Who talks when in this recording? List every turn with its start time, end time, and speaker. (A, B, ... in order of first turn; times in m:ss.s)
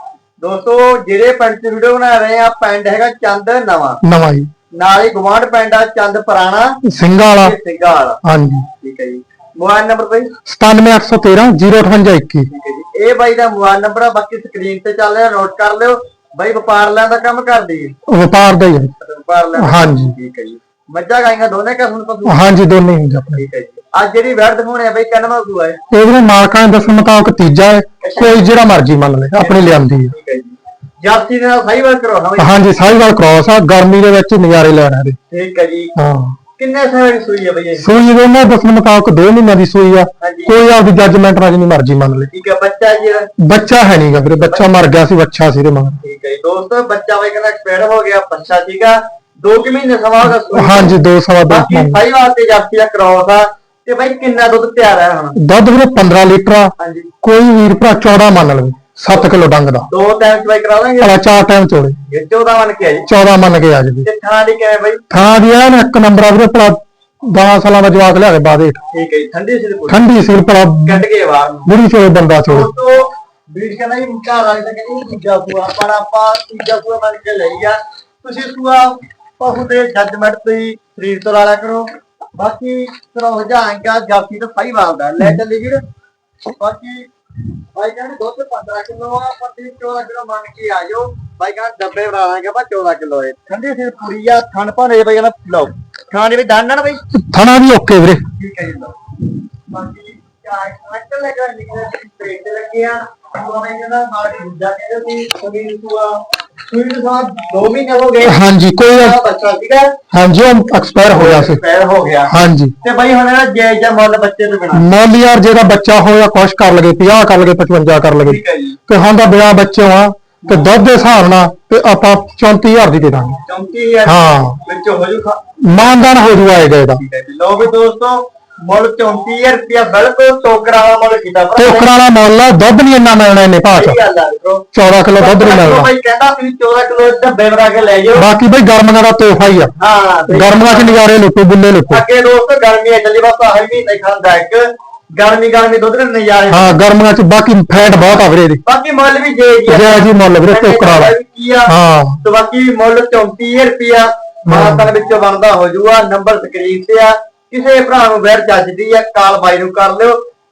0:00.4-0:04.0 A
0:04.0-0:04.5 B
0:04.8-0:06.8 A
0:06.8-0:07.6 B
0:07.3-0:08.2 A
0:08.2-0:08.7 B
0:08.8-0:10.3 A
0:10.4-0:12.5 B
0:12.5-0:17.9 A
0:18.1-0:18.9 B
0:19.0-0:22.4 A
0:19.6-0:20.1 B
0:22.2-0:23.4 B
0:23.3-0:25.8 A
0:25.9-0:30.1 B
0:28.0-0:28.4 A
0:29.4-0:32.7 A
0:32.4-0:35.2 B
0:35.3-0:35.9 A
0:36.0-0:36.4 B
0:36.6-0:37.8 A
0:37.8-0:42.3 B
0:40.2-0:40.6 A
0:42.3-0:43.3 A
0:43.4-0:46.0 B
0:44.4-0:44.7 A
0:46.0-0:55.4 A
0:50.5-0:52.0 B
0:55.4-0:59.9 B
0:56.8-0:57.1 A
0:59.9-1:01.2 A
1:01.0-1:02.0 B
1:02.1-1:03.1 A
1:03.1-1:04.1 B
1:04.0-1:05.0 A
1:05.1-1:08.8 B
1:08.9-1:10.0 A
1:09.9-1:11.0 B
1:10.8-1:11.7 A
1:11.6-1:12.7 B
1:12.4-1:25.8 A
1:26.6-1:27.1 A
1:27.7-1:37.0 A
1:37.1-1:38.2 B
1:38.3-1:39.0 A
1:39.7-1:49.9 A
1:48.2-1:49.2 B
1:50.1-1:51.6 B
1:51.1-1:54.8 A
1:52.3-1:52.7 B
1:54.7-2:03.4 B
1:58.2-1:58.8 A
2:00.4-2:00.7 A
2:03.4-2:05.4 A
2:04.1-2:04.6 B
2:05.7-2:07.0 B
2:07.0-2:11.9 A
2:11.6-2:14.0 B
2:13.7-2:18.3 A
2:14.7-2:15.9 B
2:18.2-2:19.7 B
2:19.8-2:21.0 A
2:20.3-2:22.0 B
2:21.9-2:24.6 A
2:25.2-2:26.8 A
2:26.5-2:28.6 B
2:28.6-2:31.7 A
2:29.7-2:31.1 B
2:31.7-2:32.2 B
2:32.2-2:40.2 A
2:34.5-2:34.9 B